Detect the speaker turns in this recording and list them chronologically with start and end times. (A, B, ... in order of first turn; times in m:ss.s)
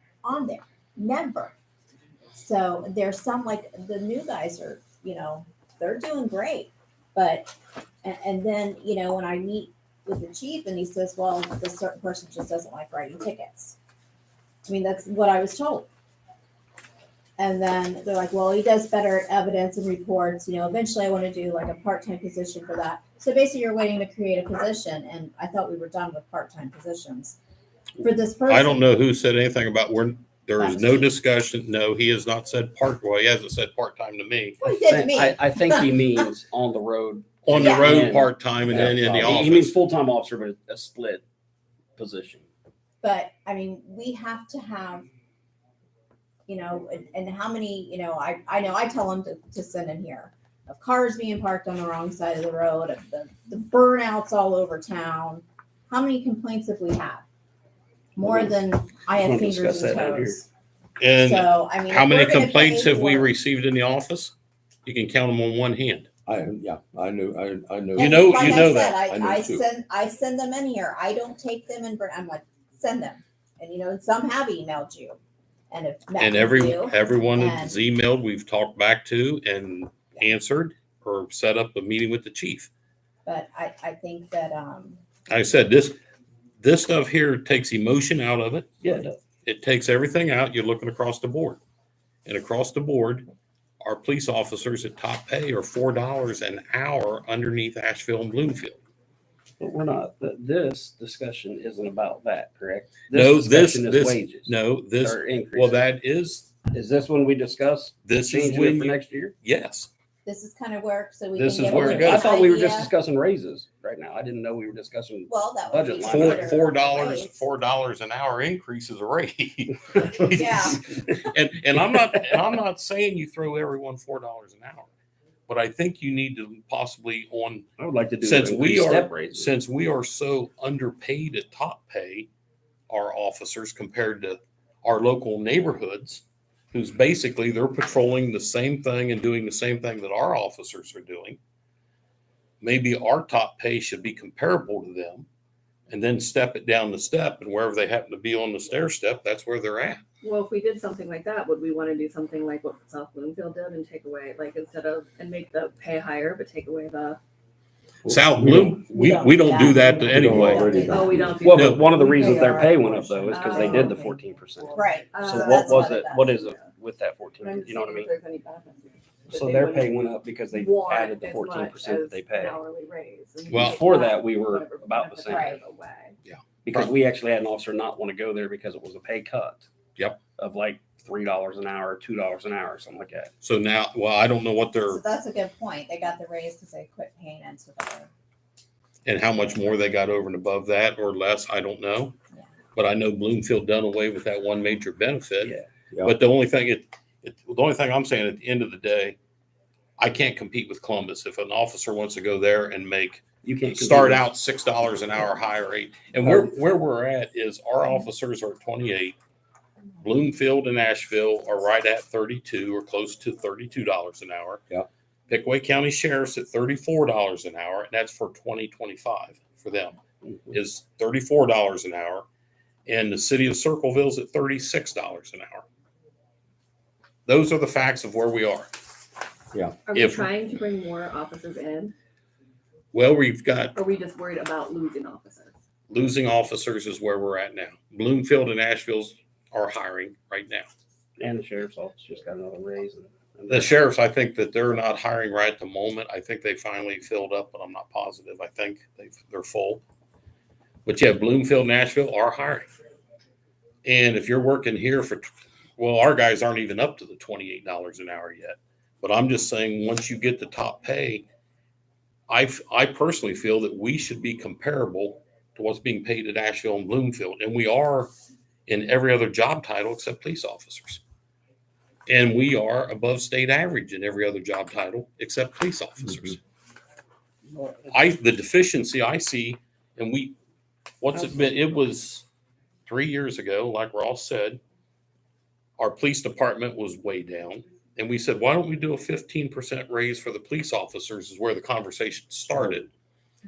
0:00.2-0:01.5 A
0:02.3-0:13.8 A
0:14.6-0:15.9 A
0:17.4-0:27.4 A
0:28.0-0:28.8 A
0:28.5-0:34.7 B
0:30.6-0:31.1 A
0:34.6-0:36.2 A
0:34.8-0:41.2 C
0:37.4-0:39.7 B
0:37.5-0:38.2 A
0:42.0-0:42.5 C
0:43.0-0:45.1 A
0:46.5-0:57.2 A
0:58.2-1:00.5 A
0:58.2-0:58.5 C
0:59.1-1:00.4 C
1:01.0-1:04.3 B
1:01.2-1:03.3 A
1:04.8-1:06.1 B
1:06.2-1:09.6 D
1:07.9-1:15.2 A
1:08.0-1:09.0 B
1:15.7-1:17.8 A
1:16.2-1:22.7 B
1:23.2-1:25.0 A
1:25.3-1:26.0 B
1:26.6-1:31.6 B
1:28.8-1:29.2 C
1:32.2-1:33.3 B
1:33.8-1:38.8 B
1:39.6-1:45.8 C
1:43.1-1:46.6 B
1:46.6-1:49.3 C
1:48.0-1:49.9 B
1:50.2-1:52.9 A
1:51.4-1:56.6 C
1:55.3-1:57.4 A
1:56.0-2:04.9 B
2:00.3-2:00.8 A
2:05.5-2:07.7 B
2:07.8-2:09.5 C
2:08.2-2:12.3 B
2:12.9-2:21.4 B
2:22.6-2:25.3 B
2:25.9-2:30.0 B
2:30.2-2:37.2 E
2:38.0-2:38.8 D
2:38.1-2:40.8 B
2:38.9-2:44.0 A
2:39.7-2:41.4 D
2:40.8-2:46.7 E
2:41.4-2:48.1 C
2:41.5-2:41.8 B
2:44.7-2:46.2 A
2:47.4-2:49.9 E
2:49.3-2:52.6 C
2:50.5-2:56.2 E
2:53.5-2:55.6 C
2:53.5-2:53.8 B
2:55.3-2:55.6 A
2:56.2-2:56.9 B
2:56.6-2:59.7 C
3:00.0-3:00.3 B
3:00.3-3:03.3 C
3:03.4-3:05.0 B
3:04.9-3:08.1 A
3:09.0-3:12.2 B
3:12.7-3:19.2 B
3:15.4-3:15.6 C
3:20.0-3:29.2 B
3:23.4-3:24.3 C
3:30.0-3:34.6 B
3:35.3-3:42.2 B
3:42.8-3:45.6 B
3:47.2-3:48.7 B
3:49.8-3:51.9 E
3:49.9-3:50.3 B
3:52.9-3:53.8 B
3:53.8-3:55.5 E
3:55.9-4:00.7 B
4:01.2-4:03.8 C
4:03.5-4:09.8 B
4:10.8-4:12.7 B
4:13.8-4:21.2 B
4:22.3-4:28.1 B
4:28.7-4:31.0 B
4:32.1-4:36.4 B
4:37.9-4:40.3 B
4:41.0-4:42.2 B
4:42.8-4:44.6 B
4:45.8-4:52.9 B